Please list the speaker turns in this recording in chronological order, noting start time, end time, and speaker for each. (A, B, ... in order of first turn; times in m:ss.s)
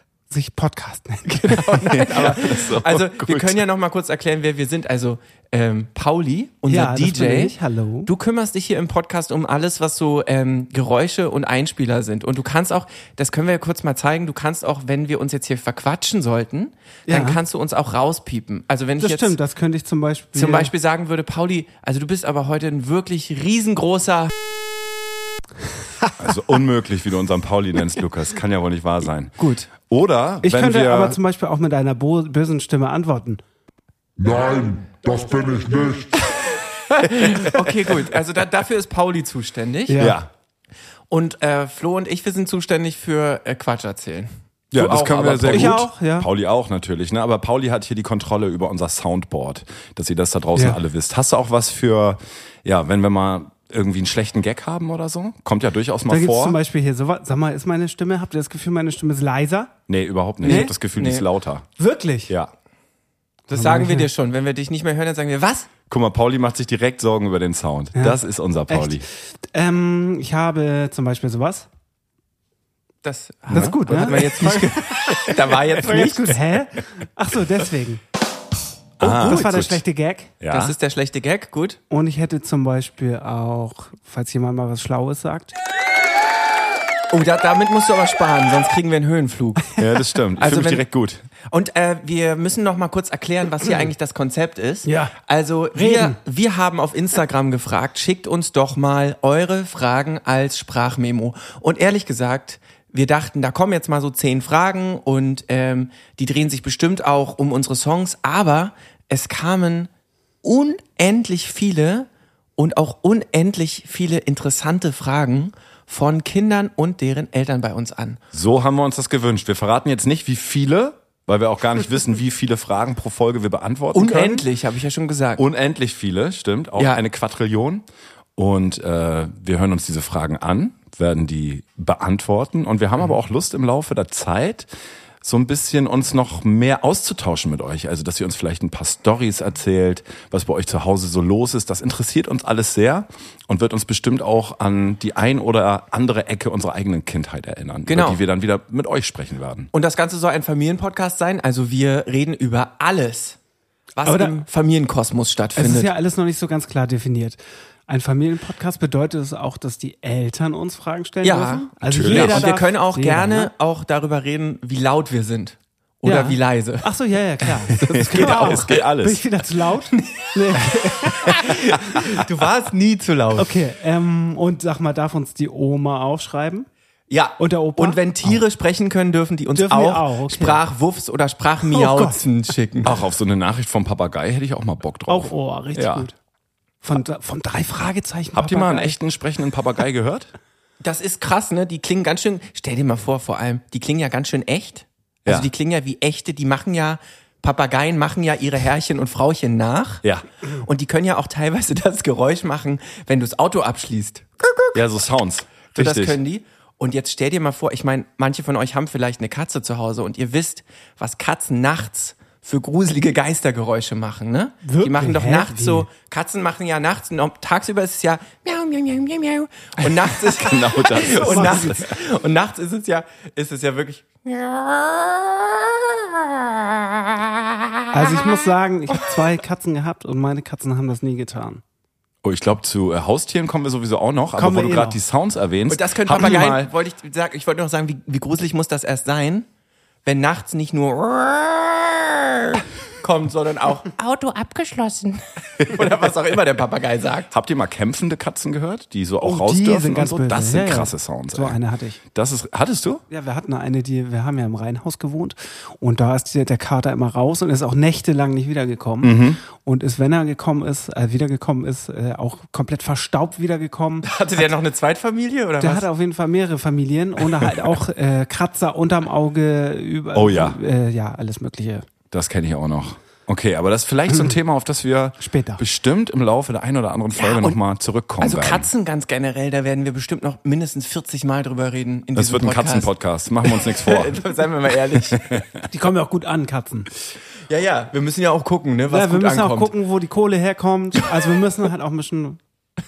0:00.3-0:01.9 A
0:01.3-0:07.6 B
0:01.8-0:03.6 C
0:06.7-0:08.1 A
0:08.1-0:19.4 B
0:17.1-0:17.4 A
0:19.0-0:20.7 A
0:20.4-0:24.3 B
0:26.2-0:31.2 C
0:30.4-0:33.4 A
0:34.2-0:36.2 D
0:36.9-0:40.0 B
0:39.9-0:40.2 A
0:40.0-0:40.3 C
0:41.1-0:45.8 B
0:44.7-0:56.6 C
0:45.5-0:46.3 A
0:56.1-0:59.7 A
0:59.9-1:01.7 C
1:00.4-1:00.7 A
1:00.4-1:01.3 B
1:01.8-1:02.3 A
1:03.5-1:04.1 A
1:03.5-1:05.7 B
1:05.9-1:09.0 C
1:08.7-1:11.7 A
1:13.0-1:16.4 B
1:13.5-1:14.1 C
1:13.5-1:15.2 A
1:15.7-1:18.0 A
1:19.0-1:19.8 C
1:19.0-1:19.5 B
1:19.1-1:20.3 A
1:20.4-1:20.8 C
1:20.5-1:21.8 B
1:21.9-1:25.6 A
1:27.1-1:29.7 B
1:29.8-1:31.3 C
1:30.4-1:30.8 B
1:31.5-1:49.9 B
1:34.8-1:35.1 A
1:35.8-1:36.2 A
1:50.4-1:58.2 B
1:58.3-2:04.5 C
2:03.9-2:05.4 B
2:05.4-2:07.8 C
2:08.4-2:14.7 C
2:15.2-2:29.7 C
2:27.9-2:28.2 B
2:29.7-2:33.4 B
2:34.0-2:35.9 B
2:34.0-2:34.4 A
2:35.6-2:43.5 A
2:41.2-2:46.9 B
2:41.8-2:42.5 C
2:46.0-2:51.7 A
2:47.7-2:48.8 B
2:47.8-2:49.2 C
2:51.2-2:53.5 B
2:53.4-2:56.7 A
2:57.1-3:03.0 B
2:57.4-2:58.4 A
2:59.6-3:00.6 A
3:01.7-3:02.2 A
3:02.8-3:06.1 C
3:05.1-3:06.2 A
3:06.8-3:09.0 A
3:08.3-3:10.3 C
3:10.8-3:20.0 B
3:20.6-3:24.8 B
3:24.7-3:26.2 C
3:25.8-3:47.9 B
3:34.6-3:35.9 A
3:40.3-3:41.9 C
3:41.1-3:41.8 A
3:47.9-3:51.6 A
3:52.2-3:56.7 C
3:54.4-3:55.0 A
3:55.7-3:59.5 B
4:00.0-4:07.3 B
4:07.3-4:11.6 C
4:09.2-4:12.0 A
4:12.1-4:13.0 C
4:13.1-4:24.5 A
4:19.0-4:19.4 C
4:24.0-4:25.9 B
4:25.6-4:31.9 A
4:30.1-4:30.6 C
4:32.1-4:38.7 C
4:34.1-4:34.4 A
4:35.2-4:35.6 A
4:37.1-4:37.6 B
4:38.2-4:42.9 B
4:42.2-4:44.2 C
4:43.5-4:45.3 B
4:45.1-4:45.7 C
4:45.7-4:46.9 A
4:47.5-4:49.7 B
4:48.9-4:52.4 A